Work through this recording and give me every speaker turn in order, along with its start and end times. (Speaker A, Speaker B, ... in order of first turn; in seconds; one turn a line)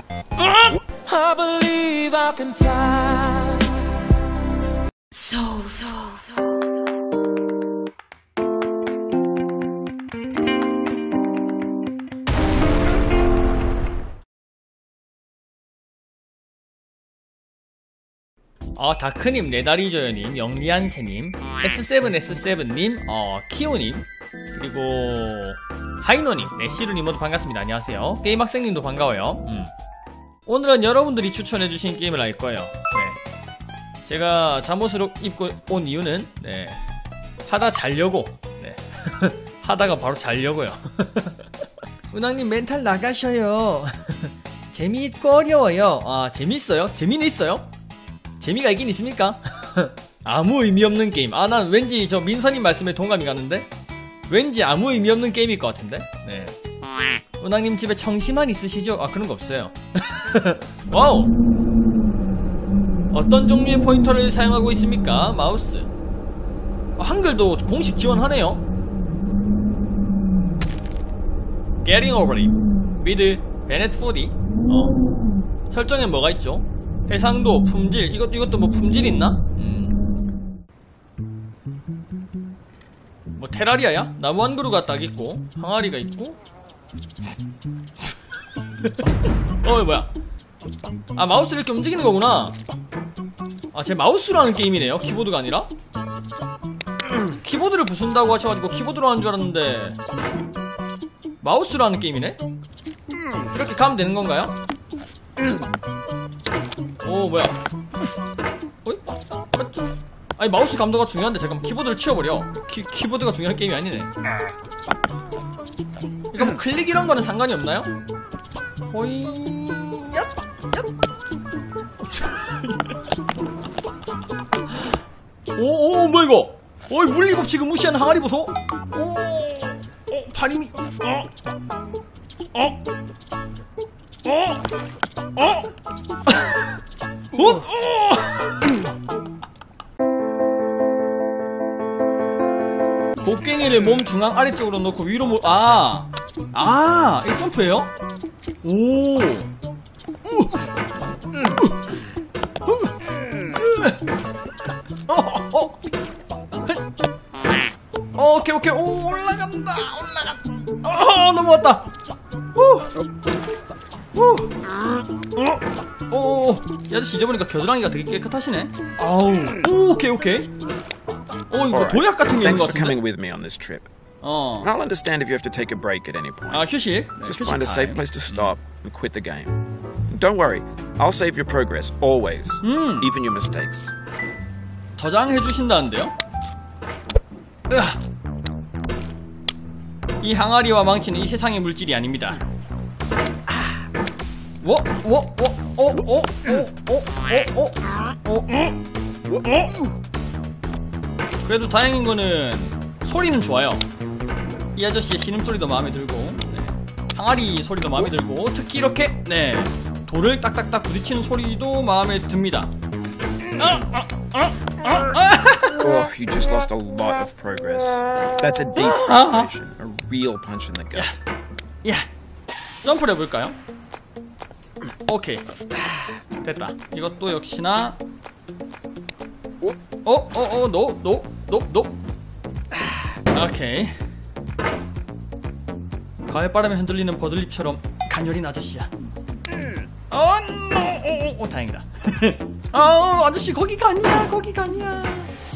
Speaker A: 0.4-3.8
Speaker A: 5.2-6.0
Speaker B: 18.8-29.7
Speaker B: 30.4-33.2
Speaker B: 34.0-36.8
Speaker B: 37.5-41.5
Speaker B: 42.1-47.7
Speaker B: 48.4-53.7
Speaker B: 54.3-56.5
Speaker B: 57.4-61.3
Speaker B: 63.1-65.9
Speaker B: 67.0-68.6
Speaker B: 71.8-75.0
Speaker B: 75.7-79.9
Speaker B: 83.3-86.4
Speaker B: 88.8-90.1
Speaker B: 91.2-92.6
Speaker B: 93.7-95.7
Speaker B: 97.4-100.0
Speaker B: 101.4-102.4
Speaker B: 103.5-104.5
Speaker B: 107.0-107.6
Speaker B: 108.8-114.1
Speaker B: 116.3-117.9
Speaker B: 118.9-120.9
Speaker B: 122.0-123.0
Speaker B: 124.7-124.9
Speaker B: 125.5-131.3
Speaker B: 134.2-134.6
Speaker B: 135.3-135.7
Speaker B: 136.3-136.7
Speaker B: 137.3-138.8
Speaker B: 143.2-147.9
Speaker B: 148.6-149.5
Speaker B: 150.2-150.6
Speaker B: 151.3-151.9
Speaker B: 152.6-152.9
Speaker B: 153.4-154.0
Speaker B: 155.1-155.8
Speaker B: 158.2-161.9
Speaker B: 162.5-162.9
Speaker B: 164.1-164.5
Speaker B: 165.3-170.5
Speaker B: 171.5-173.0
Speaker C: 171.7-173.9
Speaker B: 174.2-174.7
Speaker C: 174.6-176.7
Speaker B: 176.5-178.5
Speaker C: 177.2-179.6
Speaker C: 180.1-183.9
Speaker B: 182.6-183.1
Speaker B: 185.0-186.1
Speaker B: 187.7-188.0
Speaker B: 190.2-192.4
Speaker B: 194.6-198.7
Speaker B: 201.4-203.8
Speaker B: 204.7-212.7
Speaker B: 213.5-215.8
Speaker C: 215.7-221.2
Speaker B: 218.7-219.5
Speaker B: 222.8-223.6
Speaker B: 225.1-225.4
Speaker B: 226.4-228.0
Speaker B: 230.0-232.0
Speaker B: 233.3-234.0
Speaker B: 236.2-238.9
Speaker B: 240.1-245.3